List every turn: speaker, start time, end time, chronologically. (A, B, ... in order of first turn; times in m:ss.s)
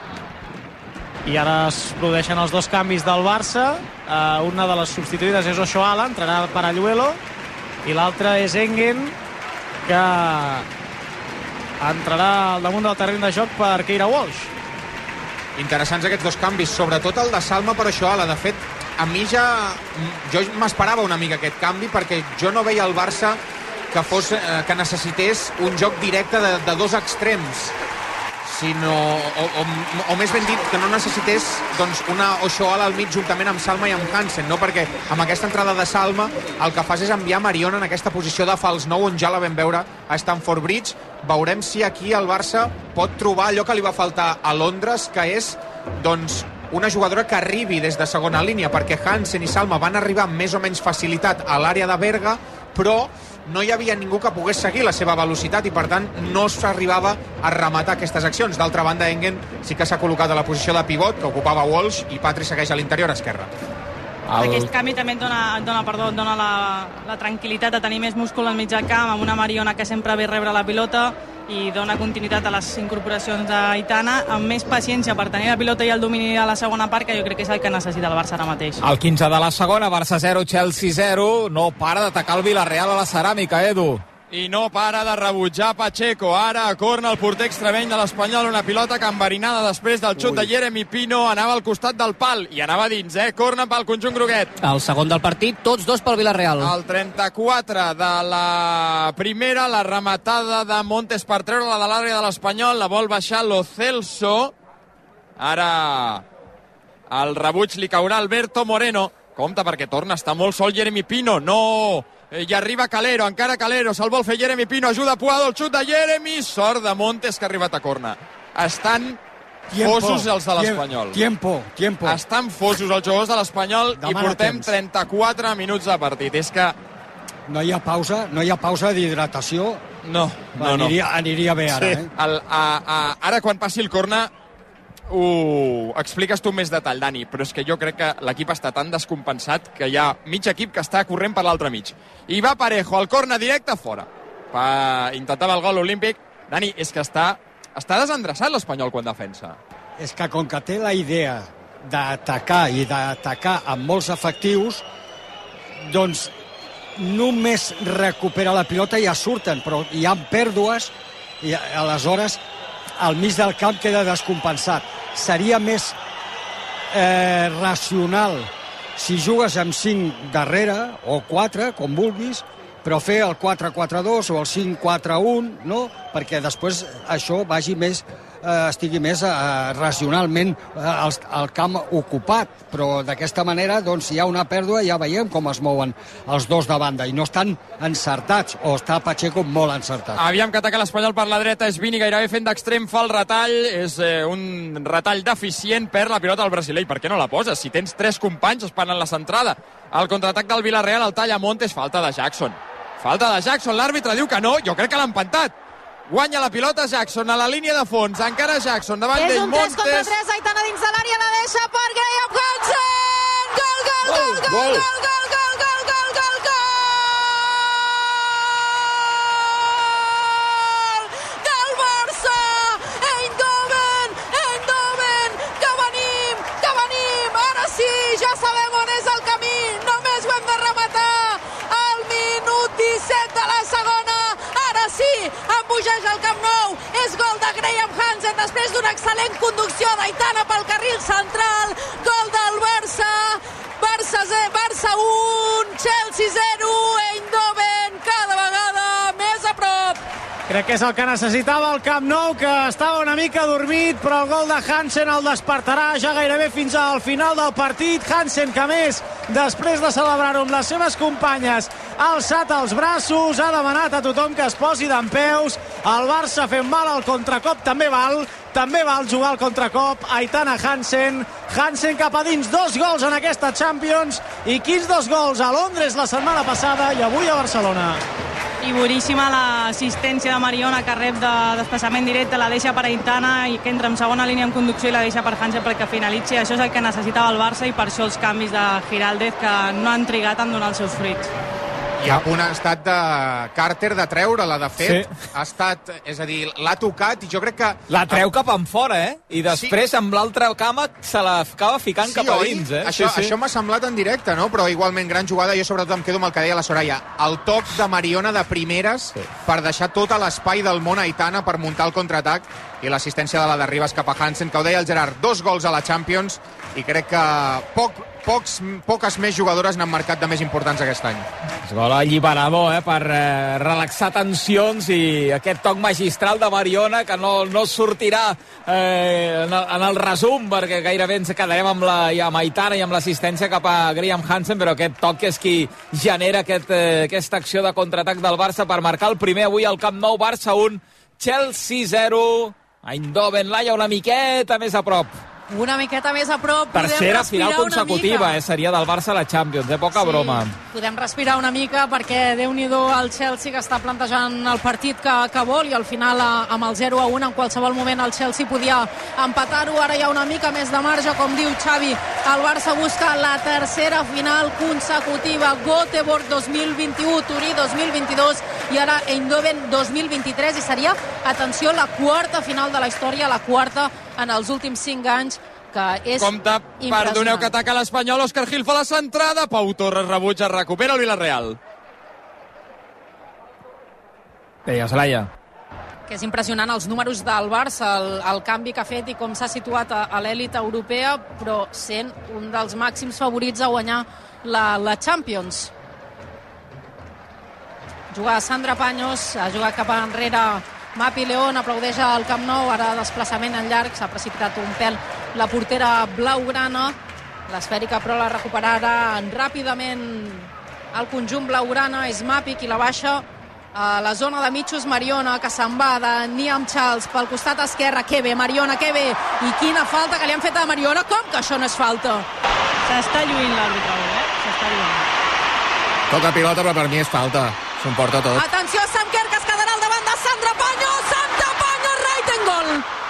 0:01.2-0:07.2 A
0:07.8-0:09.2 A
0:09.8-0:10.7 A
0:11.8-0:14.5 A
0:15.6-0:23.4 B
0:23.9-0:27.7 B
0:28.4-1:03.5 B
1:04.3-1:04.7 C
1:04.3-1:18.8 D
1:18.8-1:24.0 C
1:24.3-1:34.5 E
1:34.6-1:36.7 F
1:36.6-1:44.5 E
1:45.4-1:46.2 E
1:47.1-1:59.2 E
1:59.7-2:02.2 G
1:59.8-2:01.2 E
2:02.0-2:06.8 E
2:03.9-2:04.8 G
2:07.5-2:09.8 G
2:10.0-2:10.9 E
2:10.6-2:12.1 G
2:11.7-2:12.0 H
2:12.2-2:14.3 E
2:15.1-2:29.6 E
2:30.0-2:34.8 G
2:35.8-2:36.3 G
2:37.0-2:42.4 G
2:43.0-2:46.0 G
2:46.9-3:10.2 G
3:10.2-3:25.5 E
3:26.1-3:30.1 E
3:29.1-4:10.0 I
3:34.2-3:34.8 H
4:10.5-4:38.0 A
4:38.6-4:51.3 D
4:52.0-4:58.2 B
4:54.8-4:55.1 C
4:57.9-5:03.3 C
4:59.5-4:59.7 B
5:02.0-5:21.3 B
5:21.6-5:45.1 C
5:45.5-5:48.4 I
5:46.7-5:50.5 C
5:49.9-6:17.5 I
6:16.2-6:21.6 E
6:24.6-6:25.3 C
6:26.1-6:35.7 I
6:38.1-6:46.9 I
6:47.5-7:02.3 I
7:02.8-7:05.1 D
7:06.1-7:08.4 H
7:08.3-7:12.8 I